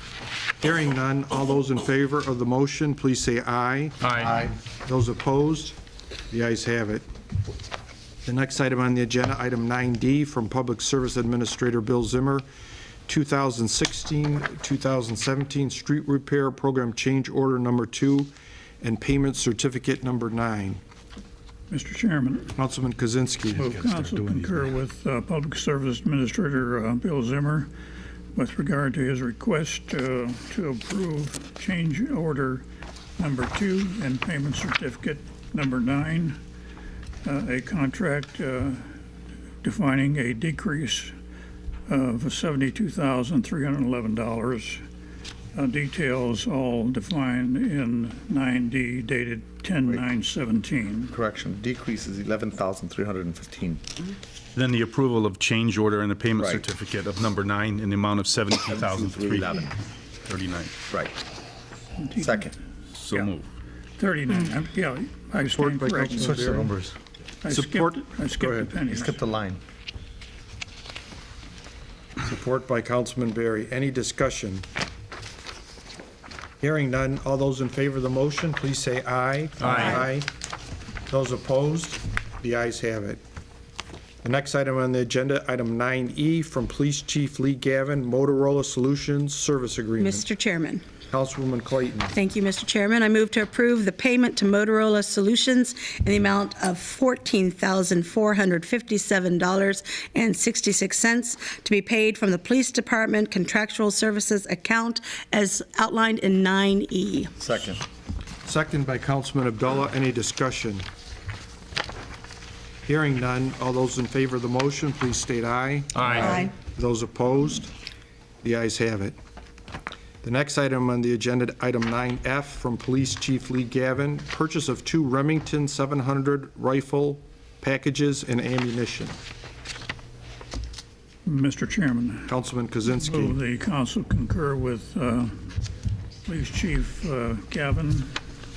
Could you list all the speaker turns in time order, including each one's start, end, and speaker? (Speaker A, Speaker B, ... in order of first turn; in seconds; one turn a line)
Speaker A: 0.6-5.8
Speaker B: 4.2-4.5
Speaker A: 6.3-7.1
Speaker A: 8.3-12.5
Speaker A: 13.1-20.8
Speaker C: 21.7-22.6
Speaker A: 22.6-23.7
Speaker C: 23.6-27.7
Speaker D: 23.6-24.7
Speaker C: 28.4-32.6
Speaker C: 33.2-36.4
Speaker C: 37.2-38.9
Speaker C: 39.6-41.1
Speaker C: 41.9-44.9
Speaker C: 45.5-51.1
Speaker B: 51.1-53.8
Speaker D: 54.6-59.7
Speaker B: 58.7-59.7
Speaker D: 60.3-60.8
Speaker B: 60.9-61.1
Speaker C: 62.0-62.4
Speaker B: 62.1-62.5
Speaker D: 62.9-63.5
Speaker C: 64.0-66.4
Speaker A: 65.5-66.7
Speaker B: 66.1-67.0
Speaker C: 67.4-69.2
Speaker A: 67.5-68.0
Speaker B: 68.4-69.6
Speaker A: 72.2-74.7
Speaker A: 76.6-80.3
Speaker A: 81.1-83.2
Speaker A: 84.2-90.2
Speaker E: 90.0-90.8
Speaker A: 91.1-92.2
Speaker E: 92.1-107.3
Speaker B: 107.4-107.8
Speaker A: 108.5-110.8
Speaker A: 112.9-117.7
Speaker D: 116.0-116.2
Speaker E: 116.1-116.5
Speaker A: 118.4-119.2
Speaker A: 120.2-129.2
Speaker C: 131.2-135.5
Speaker A: 132.3-133.4
Speaker C: 136.2-138.2